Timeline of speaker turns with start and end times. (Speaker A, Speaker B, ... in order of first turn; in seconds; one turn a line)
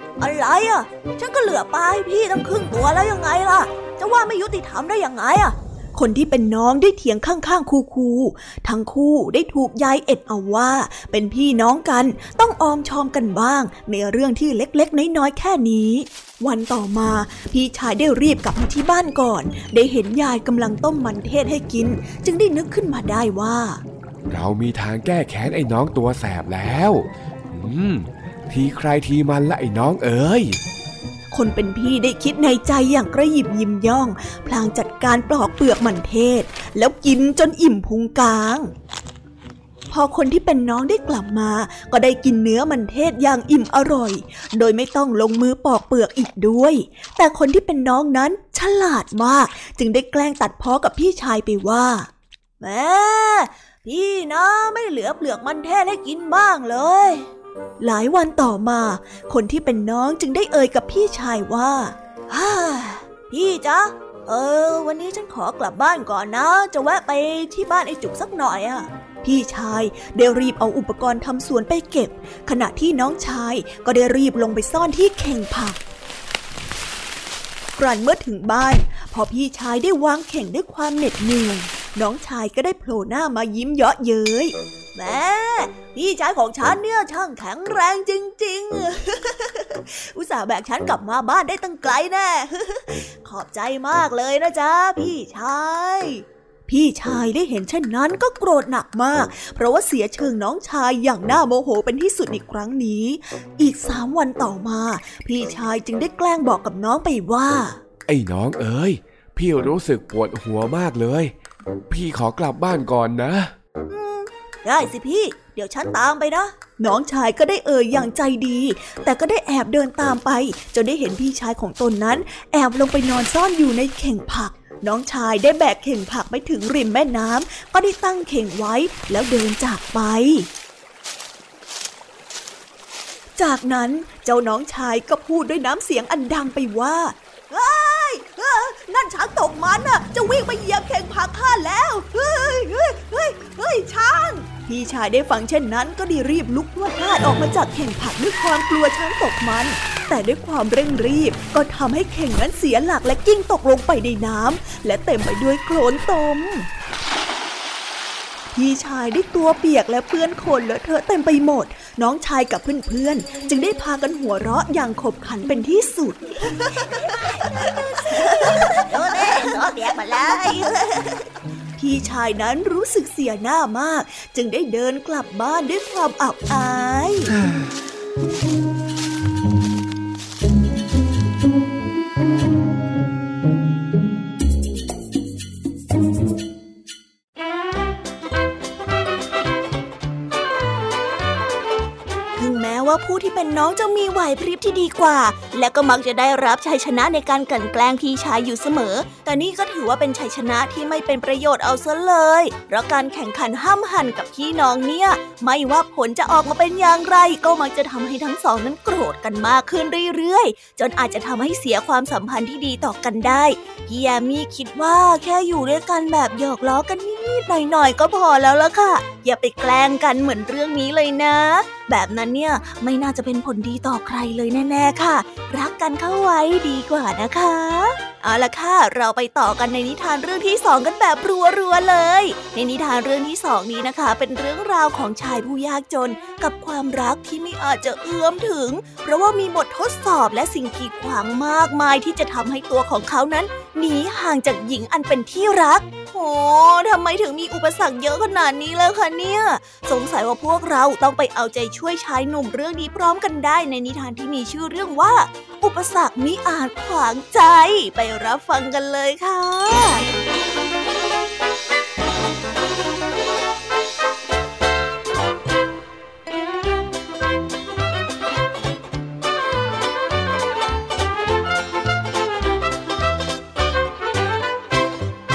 Speaker A: 0.2-5.5
Speaker B: 5.9-23.8
Speaker C: 24.3-30.6
Speaker B: 31.3-38.7
Speaker B: 39.9-52.1
Speaker A: 52.6-57.2
Speaker B: 57.8-62.0
Speaker A: 62.3-68.9
Speaker B: 69.2-75.8
Speaker B: 77.8-84.5
Speaker A: 84.9-96.2
Speaker B: 96.7-107.8
Speaker C: 108.1-111.3
Speaker C: 111.9-113.5
Speaker A: 113.9-116.5
Speaker B: 116.7-130.5
Speaker B: 133.4-156.7
Speaker B: 158.5-167.0
Speaker A: 166.8-171.2
Speaker B: 171.8-176.6
Speaker A: 176.6-177.3
Speaker A: 192.3-260.1